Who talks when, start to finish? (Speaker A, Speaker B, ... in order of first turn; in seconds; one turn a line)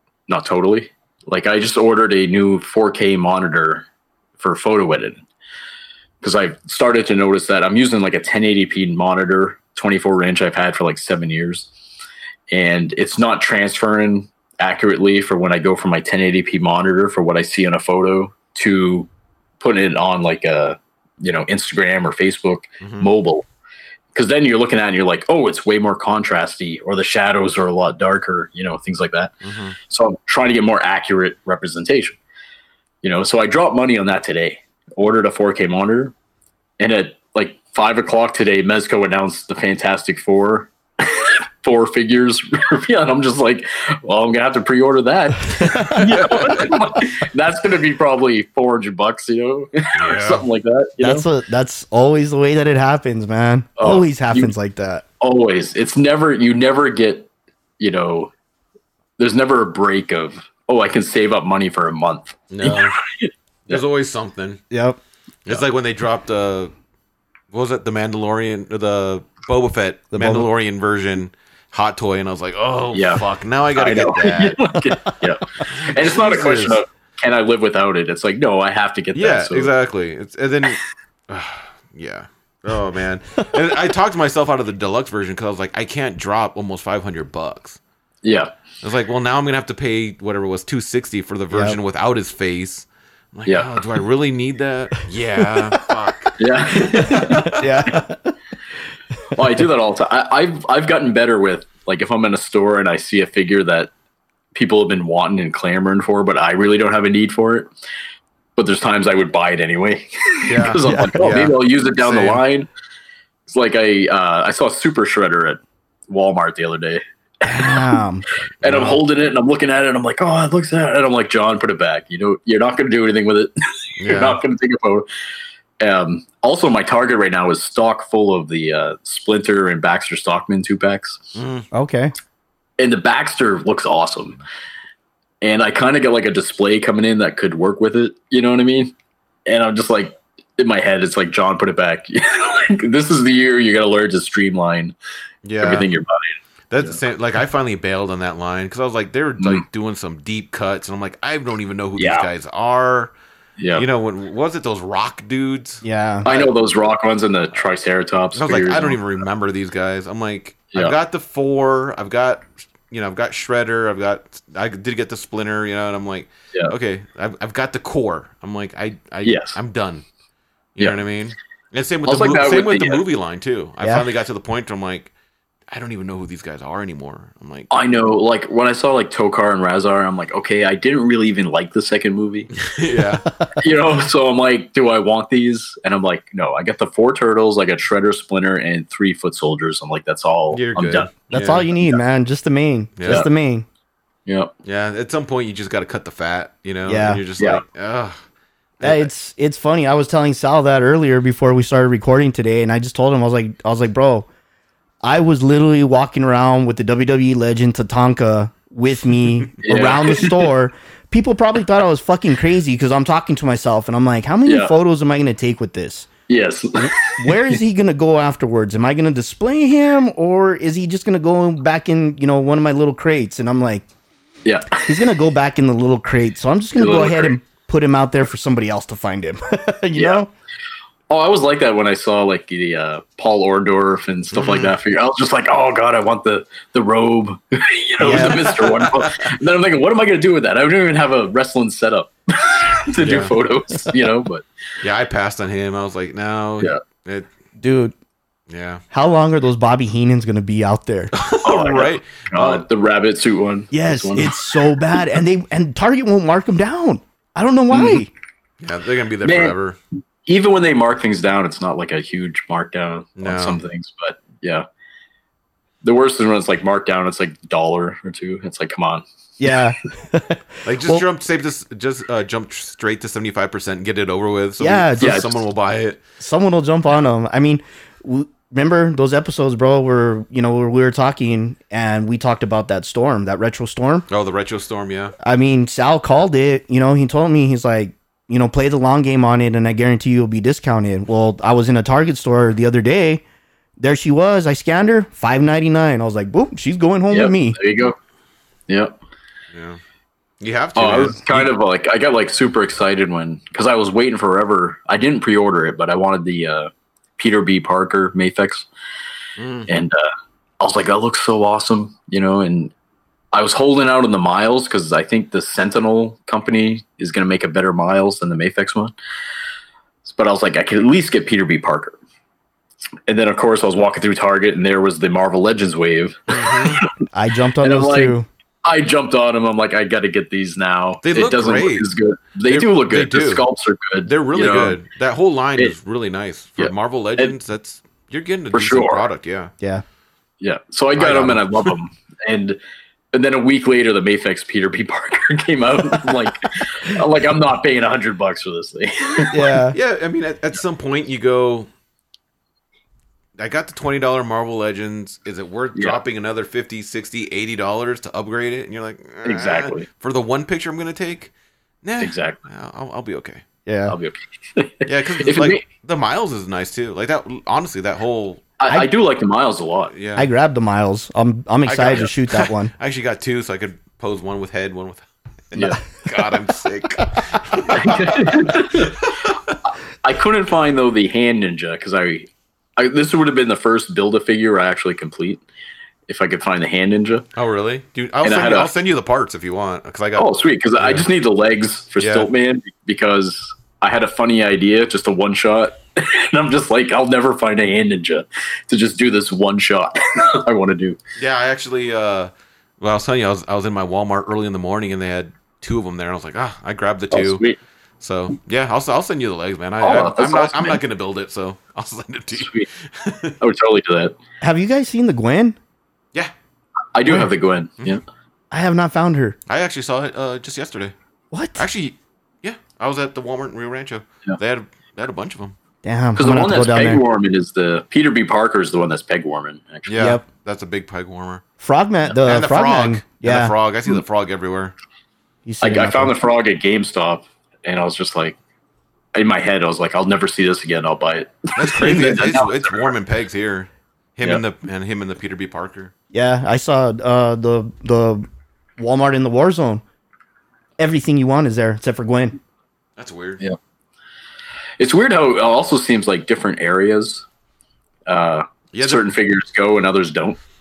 Speaker A: 0.3-3.9
Speaker A: 4.4-5.2
Speaker A: 6.2-11.7
Speaker A: 12.5-23.5
Speaker B: 22.8-23.1
Speaker A: 24.1-29.4
Speaker B: 29.4-29.8
Speaker A: 29.9-32.2
Speaker A: 33.0-36.1
Speaker A: 36.8-51.2
Speaker C: 45.5-46.1
Speaker B: 46.1-46.7
Speaker B: 50.0-50.5
Speaker C: 51.0-55.0
Speaker A: 53.8-54.5
Speaker A: 55.2-58.3
Speaker A: 59.2-63.8
Speaker B: 62.5-63.0
Speaker B: 63.7-64.6
Speaker C: 64.7-65.0
Speaker B: 65.5-66.7
Speaker B: 67.5-74.6
Speaker C: 70.1-70.5
Speaker A: 72.9-73.2
Speaker A: 73.8-79.7
Speaker B: 75.7-76.8
Speaker B: 79.2-87.8
Speaker A: 88.2-88.5
Speaker B: 88.8-97.6
Speaker C: 91.5-91.8
Speaker C: 95.4-96.3
Speaker A: 96.4-98.0
Speaker C: 97.1-98.3
Speaker A: 99.3-103.9
Speaker A: 104.5-107.7
Speaker A: 108.6-112.7
Speaker B: 110.5-112.4
Speaker C: 110.8-111.1
Speaker A: 113.5-118.0
Speaker C: 117.4-118.2
Speaker A: 118.6-125.1
Speaker B: 118.6-119.0
Speaker B: 124.0-124.4
Speaker A: 125.8-131.4
Speaker B: 131.4-131.7
Speaker C: 131.7-132.1
Speaker A: 132.8-134.4
Speaker A: 135.4-138.9
Speaker A: 139.5-144.9
Speaker B: 145.4-145.9
Speaker A: 145.6-147.0
Speaker B: 146.7-153.1
Speaker A: 149.4-149.6
Speaker A: 152.0-152.3
Speaker A: 153.6-153.8
Speaker B: 153.8-156.5
Speaker C: 155.8-156.3
Speaker A: 156.2-159.0
Speaker B: 158.3-170.1
Speaker A: 169.2-169.6
Speaker B: 170.8-175.1
Speaker A: 172.1-173.0
Speaker B: 175.7-177.7
Speaker A: 177.7-182.5
Speaker B: 182.6-183.3
Speaker A: 183.6-191.3
Speaker B: 190.5-191.7
Speaker C: 191.3-193.7
Speaker B: 193.0-193.2
Speaker B: 194.6-198.2
Speaker C: 196.9-197.2
Speaker B: 198.8-199.1
Speaker C: 198.8-204.3
Speaker C: 205.0-216.1
Speaker A: 209.6-210.5
Speaker A: 214.5-214.7
Speaker A: 216.3-217.5
Speaker C: 216.8-223.9
Speaker A: 224.4-225.0
Speaker C: 224.8-230.3
Speaker A: 226.8-227.3
Speaker A: 231.1-244.5
Speaker B: 234.3-234.7
Speaker C: 238.0-238.5
Speaker B: 238.3-239.1
Speaker B: 243.0-243.3
Speaker B: 244.8-247.3
Speaker C: 247.6-247.9
Speaker B: 248.5-248.8
Speaker C: 248.9-251.1
Speaker B: 251.1-252.6
Speaker A: 251.4-254.5
Speaker C: 253.7-258.1
Speaker A: 257.7-258.0
Speaker B: 258.6-259.8
Speaker A: 259.2-259.6
Speaker A: 260.3-264.6
Speaker B: 263.2-263.6
Speaker A: 265.8-269.0
Speaker C: 269.4-271.0
Speaker B: 270.6-276.0
Speaker C: 274.6-275.2
Speaker A: 275.0-275.4
Speaker C: 276.2-284.1
Speaker B: 284.1-285.1
Speaker C: 285.2-293.2
Speaker C: 293.8-297.6
Speaker A: 297.1-298.0
Speaker A: 298.7-299.0
Speaker B: 299.5-299.8
Speaker B: 300.4-301.5
Speaker A: 300.8-308.7
Speaker B: 309.4-309.7
Speaker A: 309.7-310.1
Speaker A: 310.6-312.7
Speaker A: 313.3-318.9
Speaker A: 320.1-322.0
Speaker A: 323.1-327.0
Speaker B: 326.3-326.8
Speaker C: 327.1-328.3
Speaker A: 327.6-334.8
Speaker B: 331.0-331.9
Speaker B: 332.5-333.4
Speaker B: 334.1-339.5
Speaker A: 336.6-337.3
Speaker A: 338.5-339.0
Speaker A: 340.4-342.6
Speaker B: 341.0-341.8
Speaker A: 343.1-349.6
Speaker C: 349.3-349.8
Speaker B: 349.7-351.7
Speaker B: 353.4-361.3
Speaker A: 359.2-359.9
Speaker B: 361.8-363.4
Speaker A: 362.0-362.4
Speaker C: 363.7-364.0
Speaker A: 363.9-365.6
Speaker B: 364.9-368.5
Speaker A: 368.6-369.9
Speaker B: 369.9-370.3
Speaker C: 370.2-372.7
Speaker B: 371.7-379.6
Speaker A: 375.5-375.8
Speaker A: 377.7-379.1
Speaker A: 379.6-385.4
Speaker A: 386.1-387.3
Speaker B: 387.4-391.1
Speaker A: 388.2-388.7
Speaker A: 390.2-401.0
Speaker B: 392.0-392.3
Speaker B: 401.2-407.4
Speaker A: 407.1-407.6
Speaker B: 408.0-413.4
Speaker A: 409.8-410.8
Speaker A: 412.4-412.7
Speaker A: 413.4-414.1
Speaker C: 414.4-415.6
Speaker A: 416.9-418.0
Speaker C: 418.5-419.4
Speaker B: 419.5-420.9
Speaker C: 421.3-421.7
Speaker B: 421.6-425.6
Speaker C: 425.8-427.0
Speaker A: 426.2-429.9
Speaker B: 429.9-431.4
Speaker C: 430.0-430.2
Speaker C: 431.6-433.5
Speaker B: 432.2-434.7
Speaker C: 435.5-436.1
Speaker A: 435.6-438.4
Speaker A: 439.1-442.9
Speaker B: 441.6-445.9
Speaker C: 446.1-448.2
Speaker C: 448.8-449.8
Speaker C: 450.8-452.4
Speaker B: 453.0-453.4
Speaker A: 454.8-457.3
Speaker A: 458.1-460.4
Speaker B: 458.7-459.1